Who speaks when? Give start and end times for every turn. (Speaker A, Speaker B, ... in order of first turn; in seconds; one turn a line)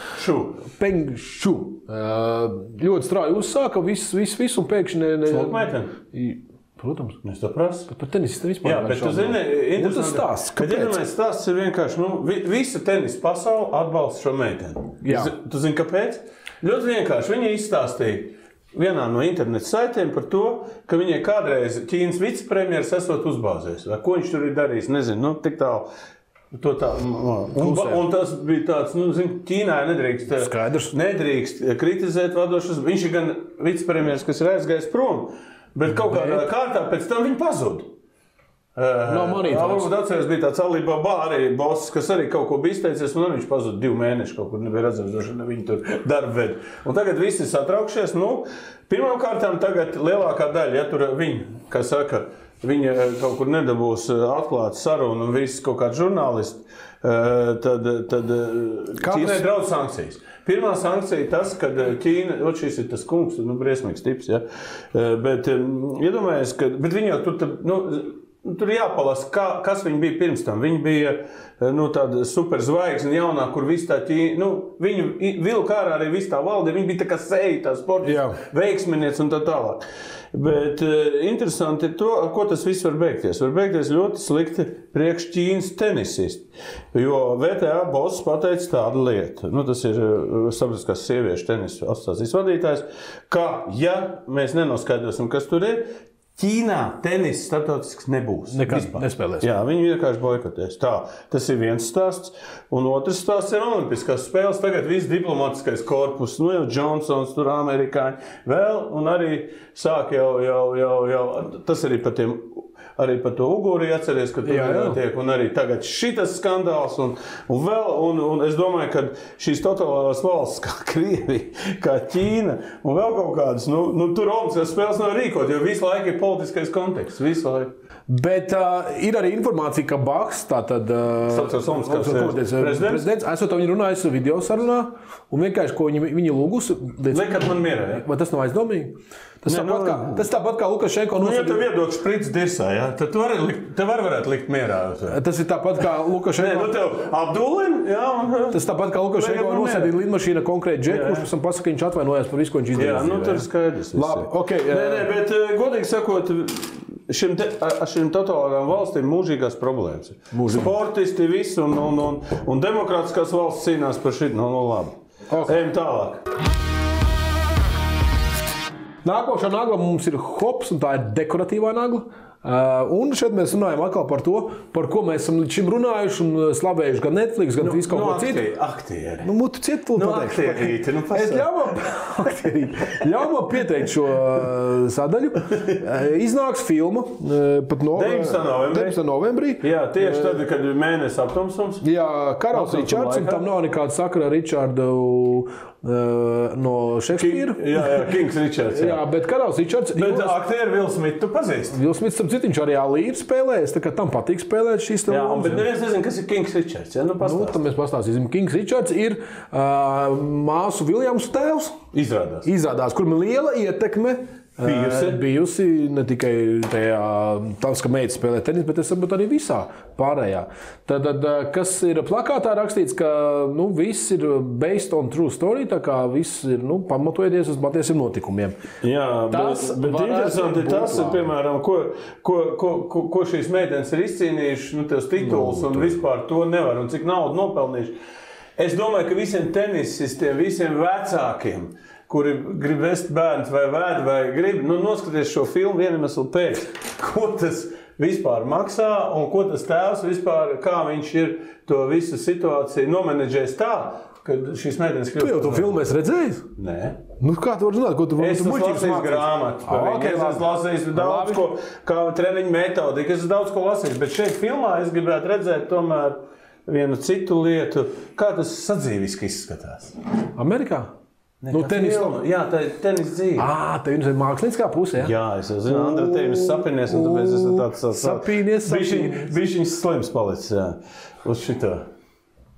Speaker A: 0.1-0.6
Speaker B: 0.7-7.2
Speaker A: 5.3-5.9
Speaker A: 7.2-7.9
Speaker B: 7.9-11.0
Speaker A: 8.6-25.9
Speaker B: 15.0-15.3
Speaker A: 26.5-37.9
Speaker B: 27.6-28.0
Speaker B: 30.3-30.9
Speaker B: 35.9-36.5
Speaker A: 38.7-127.7
Speaker B: 39.0-39.9
Speaker B: 59.0-59.4
Speaker B: 78.0-78.4
Speaker B: 98.5-99.5
Speaker B: 114.4-115.0
Speaker B: 128.1-141.6
Speaker A: 131.3-133.1
Speaker A: 137.1-138.0
Speaker A: 139.4-140.2
Speaker A: 141.2-145.2
Speaker B: 145.1-146.7
Speaker A: 146.4-150.0
Speaker B: 148.5-155.1
Speaker A: 150.8-151.3
Speaker A: 152.7-166.2
Speaker B: 160.3-160.7
Speaker B: 165.3-165.6
Speaker B: 169.0-178.4
Speaker A: 177.6-179.3
Speaker B: 179.2-190.4
Speaker A: 179.9-181.5
Speaker A: 187.9-189.0
Speaker A: 189.6-191.8
Speaker B: 191.8-198.1
Speaker A: 192.5-193.5
Speaker A: 197.2-199.0
Speaker B: 198.7-200.3
Speaker A: 199.9-201.8
Speaker B: 201.7-205.7
Speaker A: 205.1-207.6
Speaker B: 207.2-211.8
Speaker A: 211.9-212.5
Speaker B: 212.4-228.6
Speaker A: 214.6-215.2
Speaker A: 228.8-237.9
Speaker B: 229.3-231.3
Speaker B: 235.2-235.9
Speaker A: 238.6-255.8
Speaker B: 255.2-256.4
Speaker A: 256.6-257.0
Speaker B: 257.2-261.5
Speaker A: 258.2-270.0
Speaker B: 270.4-270.9
Speaker A: 271.4-273.5
Speaker B: 271.5-272.2
Speaker B: 273.4-275.1
Speaker A: 275.0-281.9
Speaker B: 275.7-279.3